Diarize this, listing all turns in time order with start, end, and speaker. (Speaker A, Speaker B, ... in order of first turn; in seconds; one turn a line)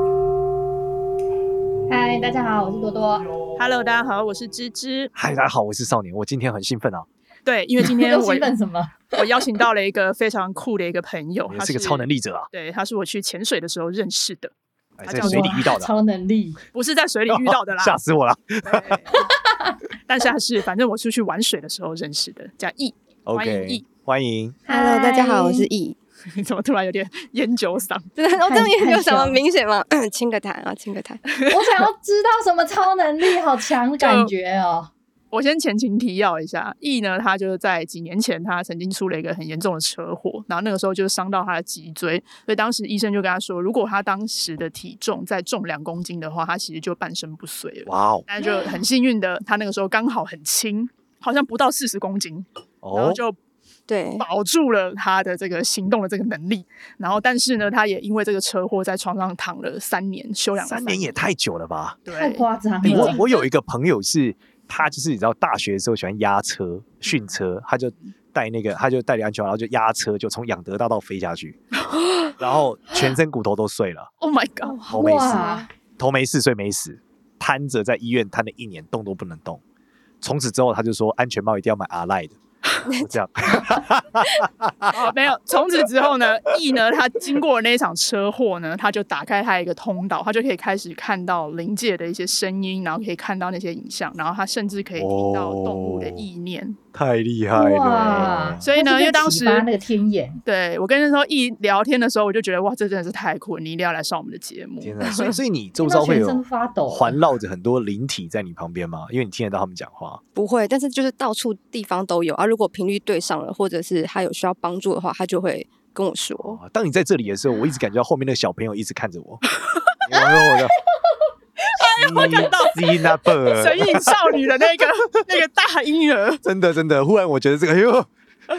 Speaker A: 1.9-3.3
Speaker B: 3.6-5.1
Speaker C: 5.1-7.1
Speaker B: 7.4-8.5
Speaker A: 7.8-9.2
Speaker B: 9.1-14.5
Speaker C: 11.5-12.5
Speaker C: 15.0-15.9
Speaker B: 15.0-15.7
Speaker A: 15.2-16.6
Speaker B: 16.7-17.9
Speaker C: 17.3-19.0
Speaker B: 18.6-19.2
Speaker A: 19.1-19.8
Speaker B: 20.1-23.9
Speaker C: 23.2-24.6
Speaker A: 24.7-25.7
Speaker D: 24.7-25.9
Speaker B: 26.2-28.1
Speaker D: 28.1-31.2
Speaker A: 28.4-29.4
Speaker B: 31.3-31.9
Speaker A: 31.5-34.9
Speaker B: 34.0-34.3
Speaker B: 35.3-53.4
Speaker C: 47.9-48.2
Speaker C: 52.8-53.2
Speaker D: 53.9-54.2
Speaker B: 54.2-61.2
Speaker C: 60.6-62.0
Speaker B: 62.0-63.5
Speaker A: 62.1-63.2
Speaker C: 62.8-71.6
Speaker C: 72.4-74.1
Speaker B: 74.2-74.8
Speaker D: 74.7-75.7
Speaker A: 74.8-75.7
Speaker C: 74.9-79.6
Speaker C: 80.2-82.4
Speaker D: 82.8-83.1
Speaker C: 83.0-85.1
Speaker B: 84.9-96.8
Speaker C: 95.0-96.2
Speaker C: 96.9-98.6
Speaker A: 97.5-100.4
Speaker B: 98.6-99.7
Speaker B: 100.4-105.4
Speaker C: 104.8-110.2
Speaker A: 105.8-107.2
Speaker D: 110.3-116.6
Speaker C: 116.4-119.4
Speaker B: 119.6-120.2
Speaker C: 120.0-120.7
Speaker B: 121.6-126.4
Speaker C: 122.0-124.2
Speaker C: 126.4-128.1